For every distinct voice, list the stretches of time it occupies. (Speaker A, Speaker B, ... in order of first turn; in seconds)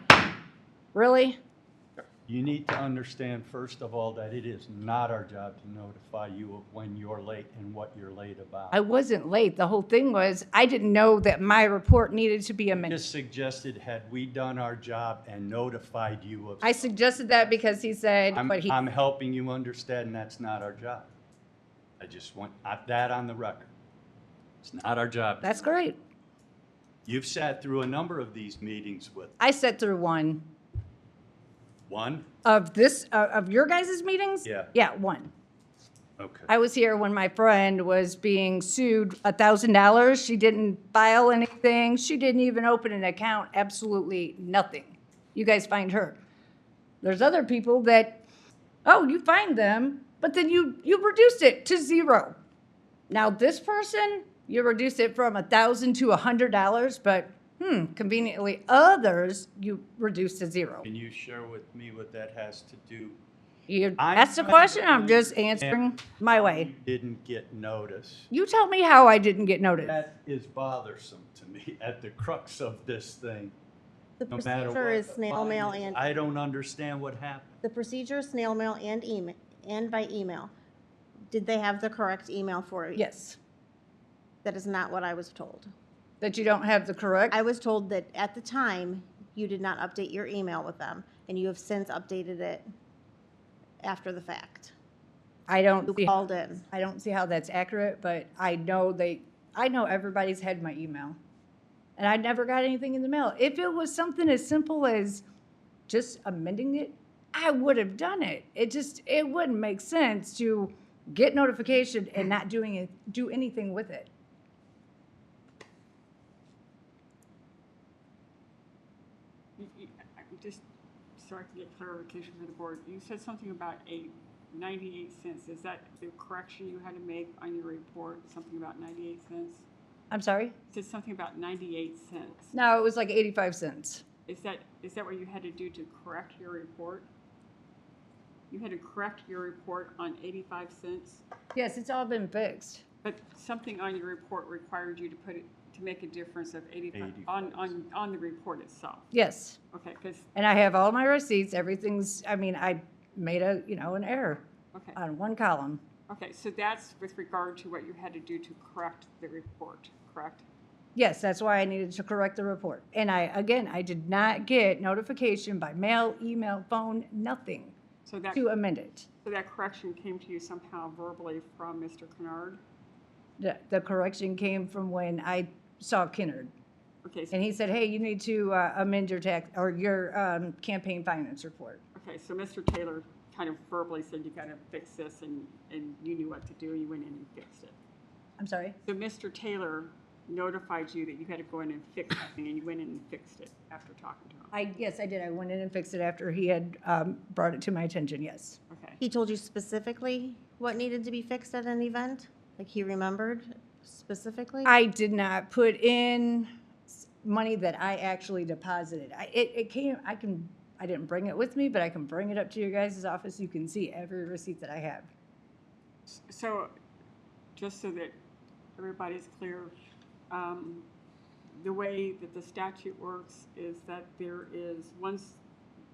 Speaker A: 0.9-1.4, 8.7-13.1, 16.6-18.7, 25.4-26.0, 29.4-30.4, 32.4-35.3, 36.5-46.2, 47.0-48.2, 48.8-52.4, 53.1-60.9, 63.7-66.7, 68.3-70.0, 82.9-83.4, 86.2-87.4, 95.5-96.1, 96.7-101.2, 102.0-105.2, 105.9-114.1, 130.1-130.5, 132.5-134.0, 141.5-142.8, 149.1-149.6, 150.3-155.8, 160.9-167.8, 168.3-169.1, 173.4-176.5, 177.3-181.8, 188.4-188.8, 194.5-198.6, 204.6-215.1
Speaker B: 2.3-8.8, 12.7-17.7, 18.3-21.1, 22.0-23.7, 24.6-25.5, 27.0-29.3, 31.9-32.3, 34.4-34.7, 36.2-36.5, 60.8-63.2, 64.0-68.3, 69.8-73.5, 74.3-77.6, 146.9-147.7
Speaker C: 74.2-76.0, 77.6-80.5, 81.3-83.0, 84.4-85.7, 87.3-92.7, 93.8-94.7, 95.9-96.6, 199.0-204.7
Speaker D: 119.6-120.6, 121.2-129.7, 130.7-132.5, 134.3-137.1, 138.5-141.2, 143.0-149.1, 149.7-150.3, 154.7-155.0, 156.1-160.4, 168.1-168.5, 169.2-172.6, 177.0-177.5, 181.9-187.8, 188.8-194.5, 198.7-199.0, 216.1-216.7, 217.5-218.2, 218.8-219.7, 220.3-220.9, 221.5-225.4